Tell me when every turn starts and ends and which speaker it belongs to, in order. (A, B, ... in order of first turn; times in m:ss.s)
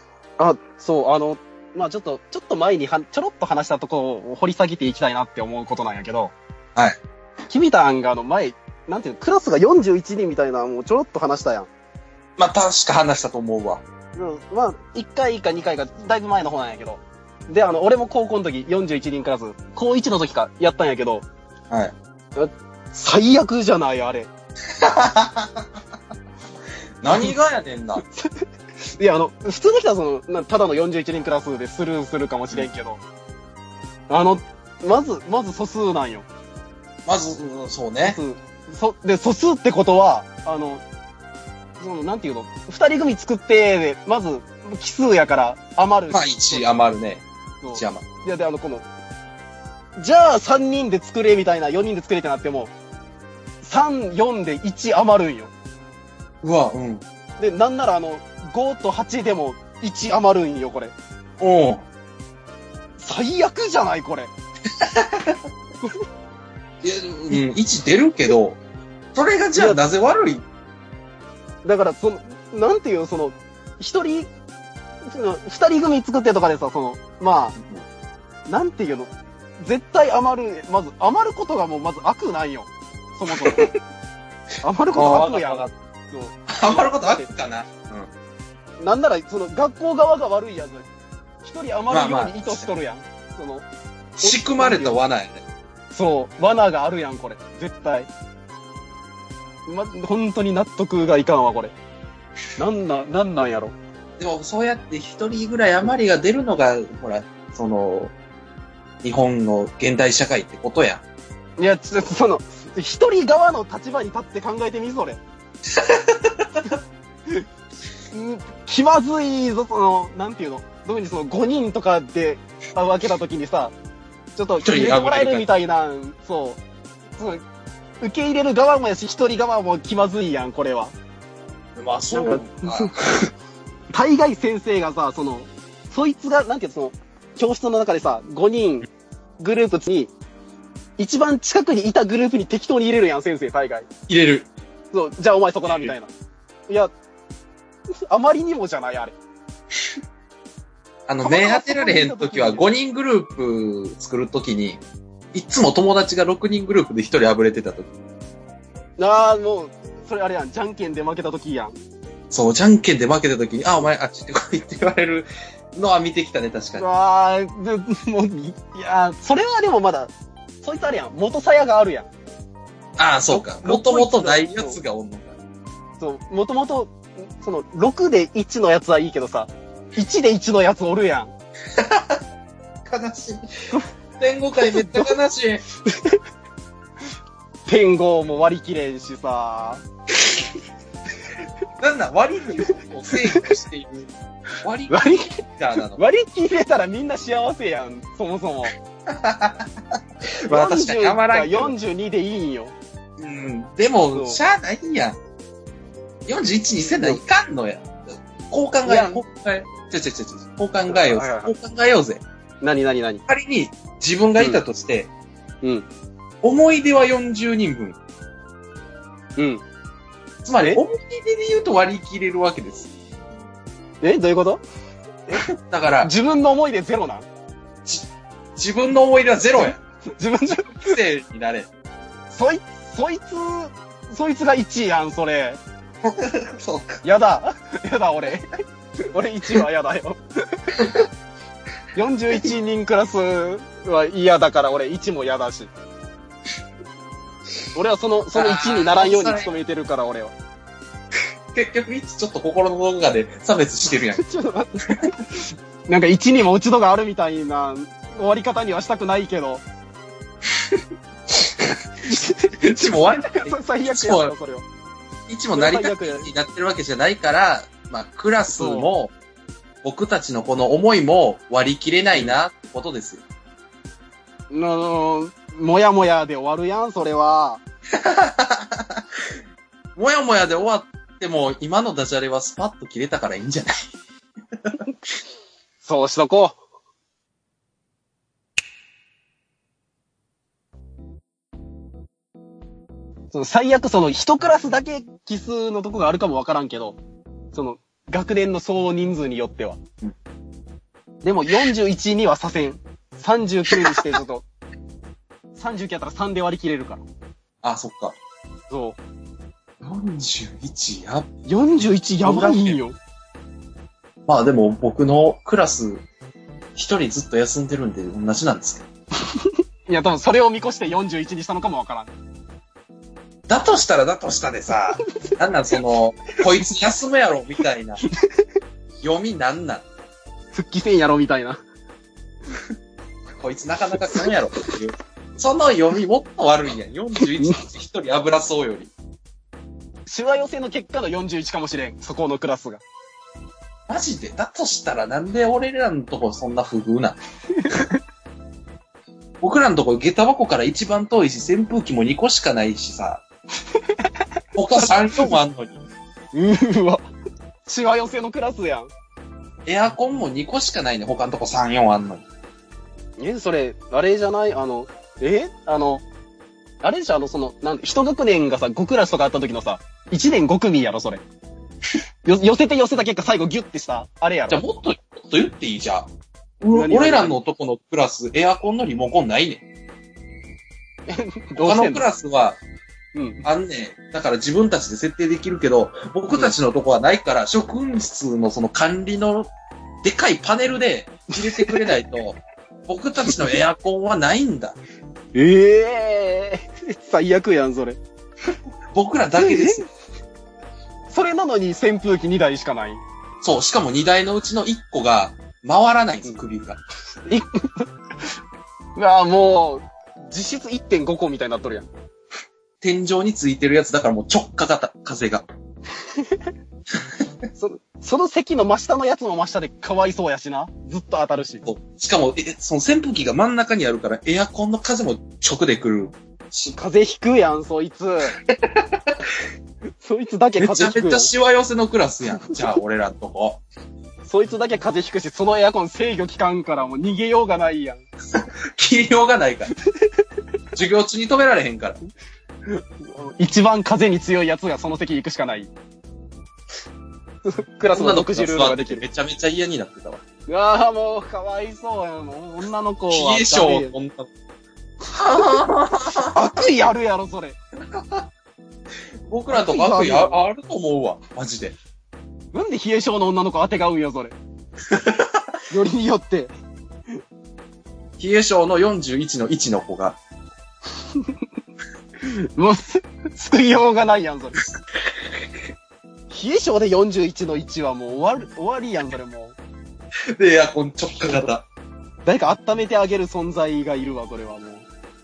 0:00.4-0:06.3 A
0:07.5-0:11.7 A
0:12.4-0:13.8 B
0:14.2-0:21.3 A
0:22.4-0:24.3 A
0:24.8-0:25.6 B
0:27.0-0:28.0 B
0:29.0-0:33.0 A
0:34.1-0:36.3 A
0:37.1-0:38.2 B
0:38.0-0:40.8 A
0:41.8-0:46.7 A
0:46.1-0:48.0 B
0:47.6-0:48.9 A
0:50.0-0:52.7 A
0:53.6-0:55.5 A
0:56.4-0:57.0 B
0:57.4-1:00.9 A
1:01.4-1:01.8 B
1:03.0-1:04.3 A
1:05.0-1:05.3 B
1:06.8-1:08.6 B
1:09.1-1:10.4 B
1:09.6-1:09.8 A
1:11.6-1:14.3 A
1:15.1-1:17.6 A
1:18.5-1:23.7 A
1:24.6-1:27.3 A
1:24.9-1:25.7 B
1:26.5-1:28.1 B
1:28.8-1:30.9 A
1:31.4-1:33.7 A
1:31.9-1:32.7 B
1:34.2-1:35.4 B
1:34.2-1:35.0 A
1:35.9-1:38.1 A
1:39.7-1:41.7 A
1:42.6-1:43.8 A
1:44.2-1:48.1 B
1:49.0-1:51.0 B
1:51.6-1:55.2 A
1:55.8-1:56.3 B
1:58.1-2:03.7 A
2:04.4-2:06.6 A
2:04.6-2:05.5 B
2:07.2-2:07.4 A
2:08.0-2:11.0 A
2:11.8-2:12.9 B
2:12.1-2:12.9 A
2:13.9-2:18.9 A
2:19.4-2:20.1 A
2:21.0-2:23.9 A
2:24.1-2:24.5 B
2:24.9-2:26.1 A
2:25.7-2:25.9 B
2:28.1-2:29.2 A
2:31.1-2:34.8 B
2:31.2-2:32.7 A
2:35.3-2:37.9 B
2:39.0-2:41.8 A
2:42.3-2:46.9 B
2:46.8-2:52.1 A
2:53.0-2:55.4 B
2:53.3-2:54.8 A
2:56.0-3:01.3 A
3:01.8-3:02.2 B
3:02.8-3:03.4 B
3:04.2-3:05.6 B
3:04.7-3:05.1 A
3:05.9-3:06.2 A
3:07.7-3:09.8 A
3:11.8-3:14.1 B
3:12.6-3:13.4 A
3:14.6-3:16.0 B
3:14.9-3:18.7 A
3:19.1-3:19.7 B
3:20.5-3:21.7 B
3:20.5-3:22.7 A
3:23.2-3:25.2 B
3:24.1-3:24.4 A
3:26.3-3:27.9 B
3:26.9-3:27.2 A
3:28.5-3:32.2 B
3:28.8-3:29.2 A
3:30.9-3:31.5 A
3:32.6-3:33.2 A
3:33.3-3:35.1 B
3:34.4-3:34.6 A
3:35.6-3:35.9 A
3:36.4-3:38.0 B
3:39.4-3:39.6 A
3:40.4-3:42.9 B
3:44.0-3:44.6 A
3:45.3-3:46.1 B
3:46.0-3:47.3 A
3:48.6-3:49.8 B
3:49.6-3:51.0 A
3:50.4-3:51.7 B
3:52.3-3:55.6 A
3:56.3-3:57.0 B
3:57.0-3:58.4 A
3:59.1-4:00.2 A
4:02.0-4:05.7 A
4:07.8-4:10.4 A
4:08.4-4:09.5 B
4:11.5-4:14.2 B
4:14.2-4:15.2 A
4:15.9-4:19.6 A
4:22.1-4:24.7 A
4:22.6-4:24.3 B
4:25.3-4:29.1 B
4:25.5-4:26.3 A
4:28.5-4:28.9 A
4:29.8-4:33.2 B
4:34.5-4:37.6 A
4:38.0-4:39.0 B
4:40.0-4:43.7 B
4:45.8-4:46.6 A
4:53.3-4:57.0 A
4:57.5-4:59.8 A
5:01.2-5:04.4 A
5:05.6-5:07.0 A
5:07.6-5:08.2 B
5:08.7-5:09.0 A
5:09.8-5:11.3 B
5:11.5-5:13.0 A
5:11.8-5:12.8 B
5:14.3-5:16.0 B
5:16.8-5:18.9 B
5:19.4-5:22.1 A
5:23.5-5:28.0 B
5:29.0-5:29.8 B
5:30.5-5:31.6 A
5:33.4-5:38.9 B
5:40.1-5:42.8 A
5:43.9-5:47.2 B
5:47.6-5:48.0 A
5:49.4-5:53.2 B
5:54.6-5:55.8 B
5:54.8-5:55.4 A
5:56.3-5:57.0 A
5:57.7-5:58.9 A
5:59.7-6:02.3 B
6:03.2-6:06.0 A
6:06.8-6:11.2 A
6:12.3-6:14.6 A
6:14.5-6:19.6 B
6:16.7-6:17.4 A
6:21.1-6:22.1 A
6:21.6-6:22.6 B
6:23.2-6:23.4 A
6:23.4-6:29.5 B
6:26.3-6:26.6 A
6:30.0-6:34.8 B
6:31.3-6:32.0 A
6:33.3-6:33.6 A
6:35.4-6:38.0 A
6:38.9-6:39.9 B
6:39.4-6:39.9 A
6:41.1-6:43.0 A
6:43.4-6:46.8 B
6:47.3-6:47.8 A
6:49.0-6:51.9 A
6:52.8-6:55.5 B
6:57.6-7:01.6 A
7:01.6-7:06.1 B
7:06.5-7:08.4 A
7:08.5-7:08.8 B
7:10.0-7:11.3 A
7:10.6-7:13.6 B
7:14.2-7:18.0 A
7:18.4-7:19.7 B
7:20.7-7:22.0 B
7:22.7-7:25.7 A
7:27.4-7:29.0 A
7:27.9-7:30.2 B
7:30.5-7:33.9 A
7:33.1-7:34.3 B
7:35.2-7:36.4 B
7:36.3-7:37.6 A
7:37.9-7:38.3 B
7:39.3-7:41.8 B
7:39.5-7:40.4 A
7:42.5-7:44.4 A
7:44.9-7:45.4 B
7:45.7-7:46.5 A
7:48.2-7:50.2 B
7:52.6-7:54.6 A
7:56.3-7:59.6 A
8:00.4-8:01.7 B
8:01.2-8:01.5 A
8:02.3-8:04.9 A